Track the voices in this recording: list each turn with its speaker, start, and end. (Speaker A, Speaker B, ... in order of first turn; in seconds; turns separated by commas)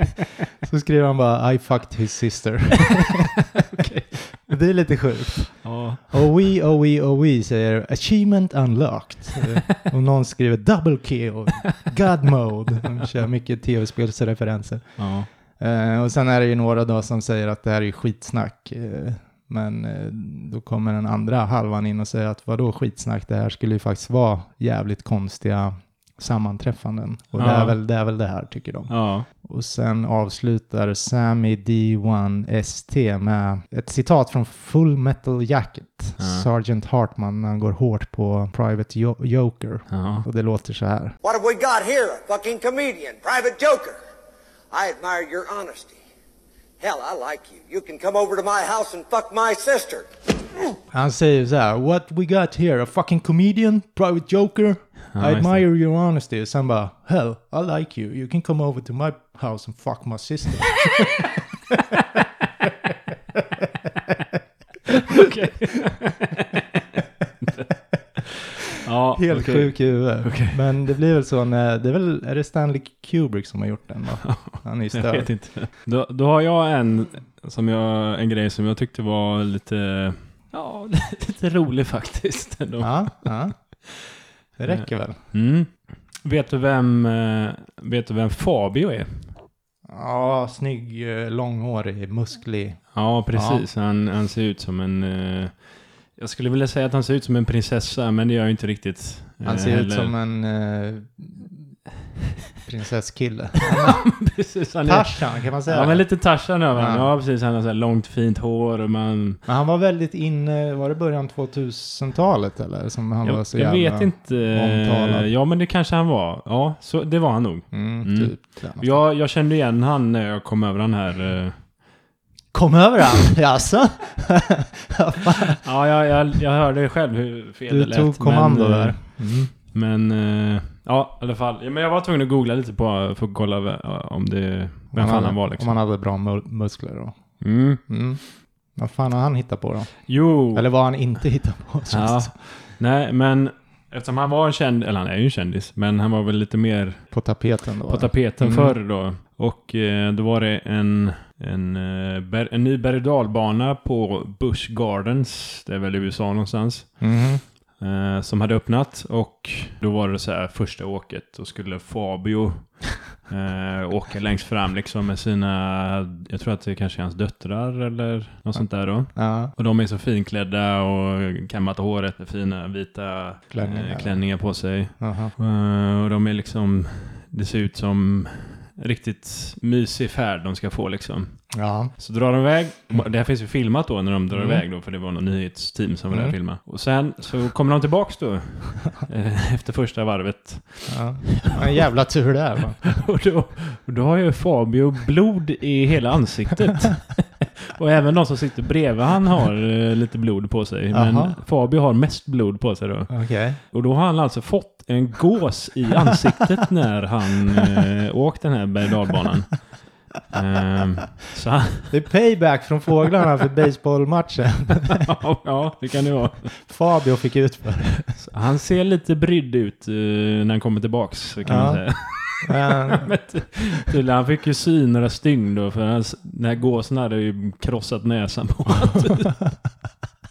Speaker A: 0.6-3.4, Speaker B: 3.7-4.2, Speaker A: 4.4-15.1, Speaker B: 5.6-6.2, Speaker B: 15.0-15.3, Speaker A: 15.6-41.1, Speaker B: 27.4-27.8, Speaker B: 28.9-29.3, Speaker B: 36.2-36.5, Speaker B: 39.9-40.3, Speaker C: 41.2-44.0, Speaker C: 44.7-46.0, Speaker C: 46.8-50.1, Speaker A: 50.9-61.0, Speaker B: 55.1-55.6, Speaker B: 64.9-66.8, Speaker B: 67.4-70.8, Speaker A: 69.2-75.3, Speaker B: 74.2-83.3, Speaker A: 82.8-83.5, Speaker A: 84.6-85.2, Speaker B: 84.7-89.4, Speaker A: 89.9-93.7, Speaker B: 92.9-100.1, Speaker A: 99.4-101.7, Speaker A: 102.6-104.1, Speaker B: 103.6-109.4, Speaker A: 104.8-106.1, Speaker A: 106.7-107.1, Speaker A: 109.5-115.3, Speaker B: 113.2-121.7, Speaker A: 117.7-119.0, Speaker A: 122.5-125.6, Speaker B: 125.6-135.8, Speaker A: 127.7-129.5, Speaker A: 134.9-138.2, Speaker B: 137.4-137.8, Speaker A: 138.8-142.3, Speaker B: 140.1-140.7, Speaker B: 141.9-147.1, Speaker A: 147.1-148.8, Speaker B: 147.9-157.1, Speaker A: 157.0-157.4, Speaker B: 157.8-191.8, Speaker A: 168.6-169.5, Speaker A: 173.5-174.3, Speaker A: 175.0-175.3, Speaker A: 181.5-181.9, Speaker A: 184.3-184.6, Speaker A: 186.1-186.4, Speaker A: 190.9-193.0, Speaker B: 192.8-209.8, Speaker A: 200.9-201.4, Speaker A: 203.1-203.6, Speaker B: 210.3-211.9, Speaker A: 211.9-215.1, Speaker B: 215.1-216.6, Speaker A: 216.6-218.2, Speaker B: 218.2-229.4, Speaker A: 221.4-223.1